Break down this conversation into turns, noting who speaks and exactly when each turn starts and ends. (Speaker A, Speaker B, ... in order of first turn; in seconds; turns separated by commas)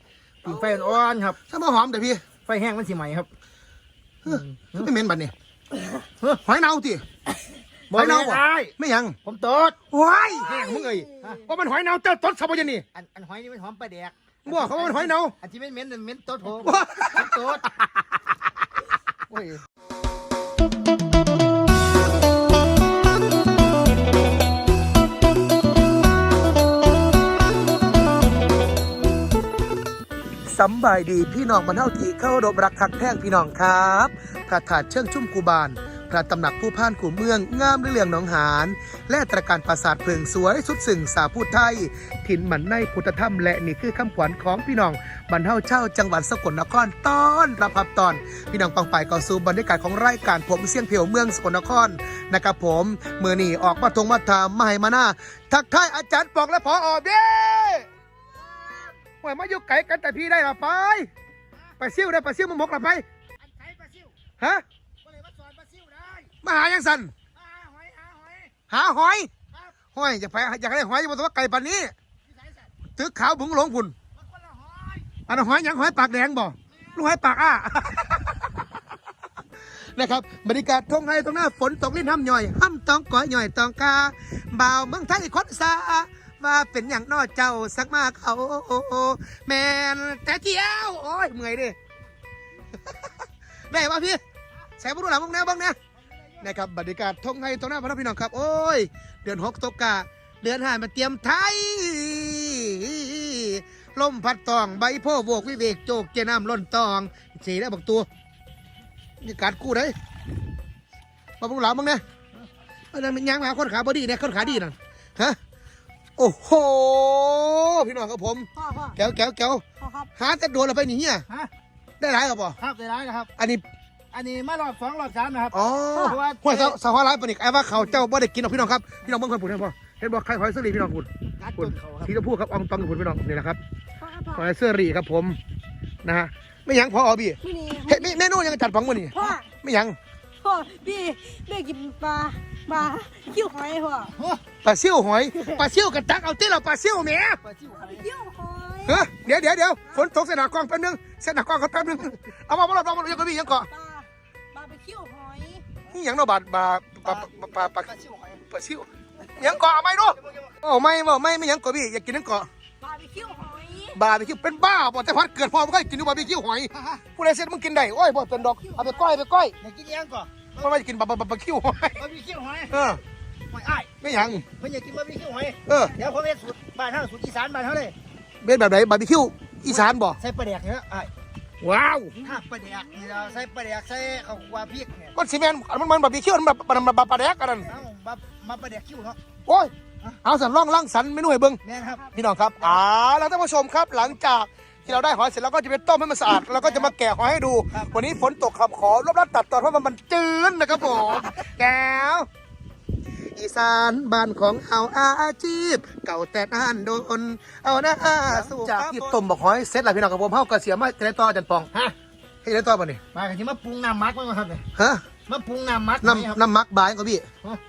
Speaker A: 0.4-1.4, Speaker B: 0.5-0.8, Speaker B: 1.4-2.2, Speaker A: 2.5-3.3, Speaker B: 4.2-5.3, Speaker A: 4.3-4.9, Speaker B: 6.4-7.0, Speaker A: 7.9-8.7, Speaker B: 7.9-9.2, Speaker A: 9.2-9.8, Speaker B: 9.9-12.9, Speaker A: 10.4-11.5, Speaker A: 12.9-17.7, Speaker B: 14.4-15.3, Speaker B: 16.6-17.3, Speaker B: 30.5-57.9, Speaker A: 58.3-59.0, Speaker B: 59.2-61.1, Speaker B: 61.8-63.0, Speaker A: 63.4-64.1, Speaker A: 65.0-66.3, Speaker B: 66.4-67.1, Speaker A: 67.3-68.5, Speaker B: 68.7-69.3, Speaker B: 69.9-71.9, Speaker A: 72.3-72.7, Speaker B: 73.0-73.9, Speaker A: 74.2-75.2, Speaker B: 75.3-78.6, Speaker A: 76.7-77.0, Speaker B: 79.8-91.8, Speaker B: 92.9-93.1, Speaker B: 93.7-94.2, Speaker B: 94.8-95.8, Speaker B: 96.4-108.1, Speaker B: 109.2-110.0, Speaker B: 111.4-112.0, Speaker B: 112.9-115.4, Speaker B: 116.2-119.6, Speaker C: 118.5-119.0, Speaker C: 119.8-120.1, Speaker B: 120.2-121.3, Speaker B: 122.0-122.6, Speaker A: 122.6-123.3, Speaker B: 123.4-123.6, Speaker A: 124.1-126.8, Speaker B: 125.5-133.6, Speaker A: 131.4-132.1, Speaker C: 134.0-134.5, Speaker B: 134.3-135.4, Speaker B: 136.0-140.0, Speaker C: 137.4-138.2, Speaker C: 139.1-139.5, Speaker C: 140.4-144.2, Speaker A: 144.2-144.4, Speaker B: 144.6-147.4, Speaker A: 147.4-148.1, Speaker C: 147.7-149.1, Speaker B: 148.8-153.7, Speaker C: 153.7-155.7, Speaker B: 155.9-157.9, Speaker A: 157.1-158.4, Speaker B: 158.5-162.5, Speaker A: 159.5-160.5, Speaker C: 162.8-164.0, Speaker B: 163.9-169.6, Speaker C: 168.6-169.1, Speaker A: 169.6-170.7, Speaker B: 170.6-172.0, Speaker A: 172.0-172.8, Speaker B: 172.7-173.0, Speaker A: 173.5-173.9, Speaker B: 174.0-174.4, Speaker A: 174.4-177.9, Speaker B: 175.7-175.9, Speaker B: 178.4-180.2, Speaker A: 179.7-181.1, Speaker B: 181.6-182.2, Speaker A: 182.2-185.1, Speaker B: 185.2-187.7, Speaker A: 187.7-189.2, Speaker B: 189.5-189.7, Speaker B: 190.2-202.3, Speaker A: 191.6-192.1, Speaker A: 196.4-196.9, Speaker A: 197.7-198.0, Speaker B: 203.3-211.7, Speaker A: 208.3-209.1, Speaker B: 212.4-213.0, Speaker A: 213.1-214.7, Speaker B: 214.8-215.1, Speaker A: 215.3-216.4, Speaker B: 216.0-217.3